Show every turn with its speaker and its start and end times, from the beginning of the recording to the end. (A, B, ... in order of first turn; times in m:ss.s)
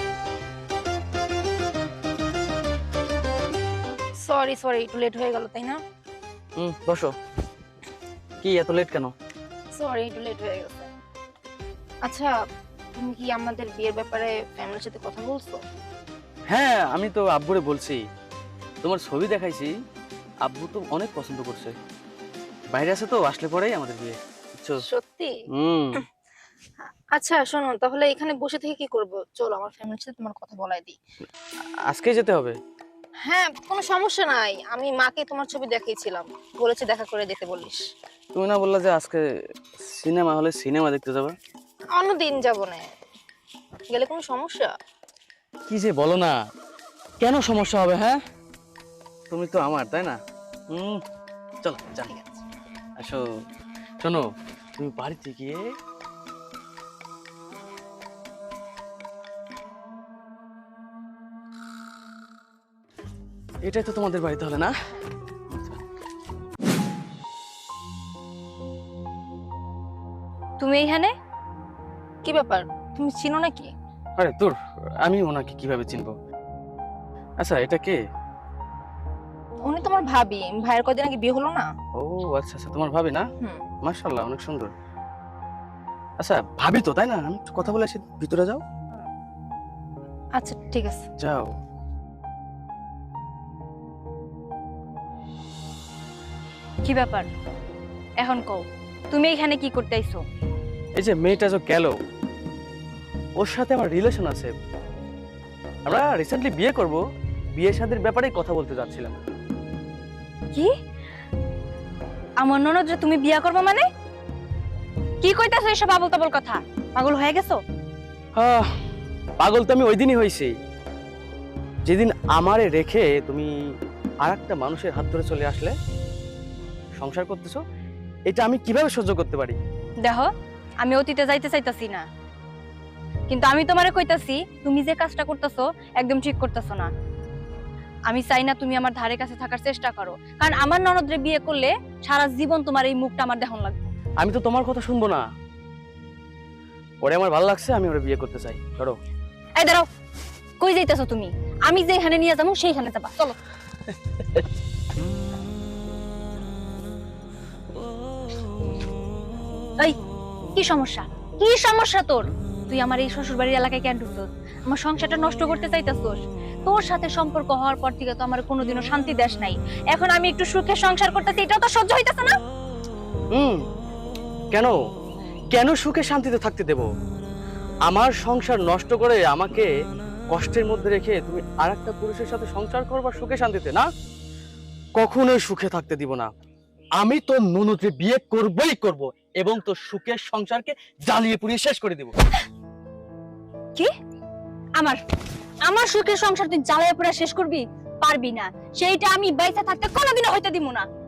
0:04.2-0:05.8 A
0:06.6-0:07.1 B
0:08.4-0:09.1 B
0:09.7-0:10.9 A
0:12.0-0:12.4 A
0:13.0-0:15.6 A
0:16.5-0:18.0 B
0:18.8-0:19.7 B
0:20.4-0:21.7 B
0:22.7-0:24.8 B
0:24.9-0:25.3 A
0:25.5-0:26.0 B
0:26.8-0:31.0 A
0:31.9-0:32.5 B
0:33.2-0:37.8 A
0:38.3-0:39.2 B
0:39.8-0:41.3 B
0:41.9-0:42.9 A
0:43.9-0:44.7 A
0:45.7-0:46.4 B
0:47.2-0:48.2 B
0:49.3-0:50.2 B
0:50.7-0:51.0 B
0:51.6-0:52.1 B
0:54.8-0:55.6 B
1:03.6-1:04.7 B
1:05.5-1:05.8 B
1:10.6-1:11.1 C
1:12.2-1:13.7 A
1:14.2-1:16.1 B
1:17.4-1:18.0 B
1:19.6-1:21.7 A
1:22.0-1:23.2 B
1:23.8-1:24.7 B
1:26.2-1:28.6 B
1:30.4-1:31.0 A
1:31.2-1:31.5 B
1:36.8-1:37.3 C
1:38.2-1:40.2 C
1:41.0-1:42.0 B
1:43.4-1:44.5 B
1:45.8-1:47.0 B
1:47.6-1:49.2 B
1:52.4-1:53.8 C
1:55.2-1:57.6 C
1:58.3-1:58.6 B
1:59.4-2:00.5 B
2:01.8-2:03.5 B
2:04.2-2:05.7 B
2:07.0-2:07.6 B
2:08.3-2:09.6 B
2:10.0-2:10.3 C
2:10.8-2:12.0 C
2:13.3-2:16.9 C
2:18.1-2:23.8 C
2:24.2-2:25.2 B
2:27.0-2:29.0 B
2:29.6-2:29.8 C
2:30.6-2:33.3 C
2:34.2-2:34.4 B
2:40.5-2:52.3 C
2:53.3-2:53.6 B
2:55.5-2:56.9 B
2:57.9-2:59.7 B
3:00.3-3:03.8 B
3:04.9-3:06.3 B
3:07.0-3:12.1 B
3:15.6-3:20.8 C